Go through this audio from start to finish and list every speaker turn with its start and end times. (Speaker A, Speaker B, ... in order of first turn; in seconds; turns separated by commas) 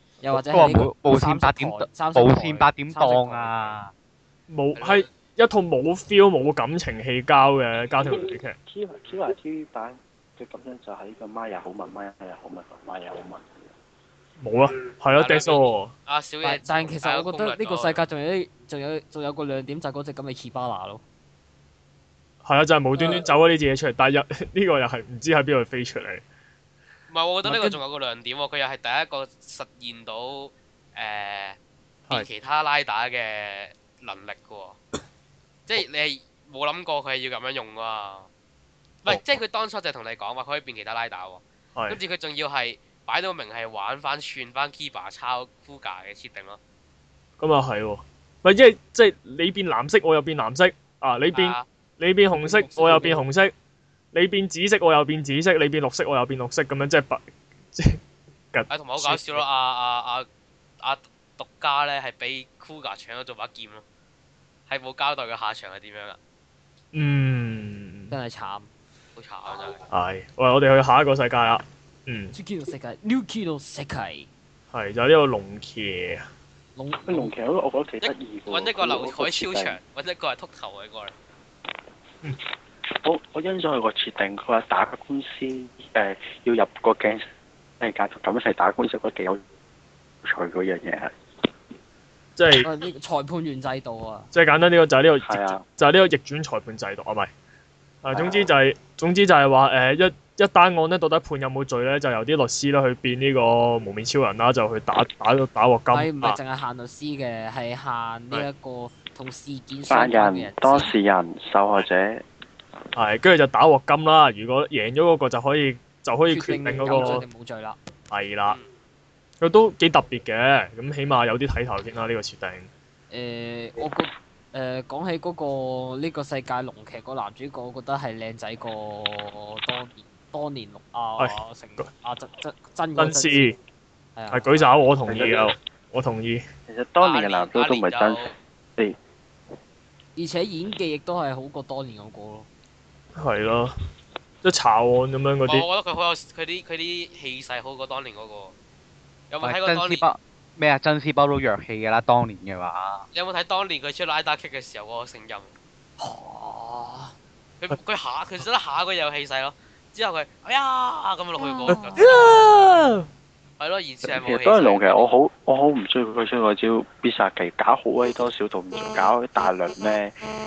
Speaker A: 0.2-3.8, Speaker B: 0.3-3.9, Speaker C: 4.5-8.6, Speaker D: 4.8-5.1, Speaker E: 8.7-13.7, Speaker C: 14.4-15.9, Speaker D: 15.2-18.0, Speaker A: 16.4-21.0, Speaker C: 22.4-26.2, Speaker A: 22.9-23.2, Speaker D: 27.1-31.6, Speaker A: 27.4-27.8, Speaker D: 32.1-34.8, Speaker D: 35.7-38.3, Speaker D: 39.0-46.6, Speaker C: 39.1-39.4, Speaker C: 47.4-53.5, Speaker D: 51.3-51.6, Speaker A: 52.3-53.2, Speaker C: 54.1-58.0, Speaker C: 58.5-59.4, Speaker D: 58.7-60.3, Speaker D: 60.8-63.8, Speaker D: 64.7-66.2, Speaker C: 66.9-68.1, Speaker A: 68.1-68.7, Speaker D: 69.2-69.8, Speaker C: 69.9-72.3, Speaker A: 72.3-74.3, Speaker C: 74.7-76.2, Speaker A: 76.8-77.3, Speaker E: 77.0-79.8, Speaker D: 78.0-81.1, Speaker E: 83.0-87.2, Speaker E: 87.8-89.4, Speaker E: 90.2-91.2, Speaker C: 92.4-92.7, Speaker A: 92.5-94.3, Speaker C: 94.3-97.3, Speaker E: 95.2-95.6, Speaker C: 98.0-106.4, Speaker E: 98.1-98.5, Speaker A: 105.9-110.9, Speaker E: 109.9-112.2, Speaker C: 113.0-117.2, Speaker A: 116.3-117.8, Speaker C: 118.1-118.6, Speaker C: 119.4-122.7, Speaker A: 123.1-133.5, Speaker C: 131.2-131.8, Speaker C: 133.0-133.6, Speaker A: 134.2-134.7, Speaker C: 134.3-136.4, Speaker E: 135.1-135.5, Speaker E: 136.7-139.0, Speaker D: 137.0-138.3, Speaker A: 140.2-142.5, Speaker C: 143.2-143.7, Speaker C: 144.4-145.6, Speaker D: 145.4-148.5, Speaker D: 149.3-150.0, Speaker B: 149.4-153.0, Speaker D: 153.1-155.5, Speaker A: 156.0-157.1, Speaker D: 157.6-162.0, Speaker A: 161.4-162.2, Speaker C: 161.7-163.1, Speaker D: 163.6-165.1, Speaker E: 164.0-170.1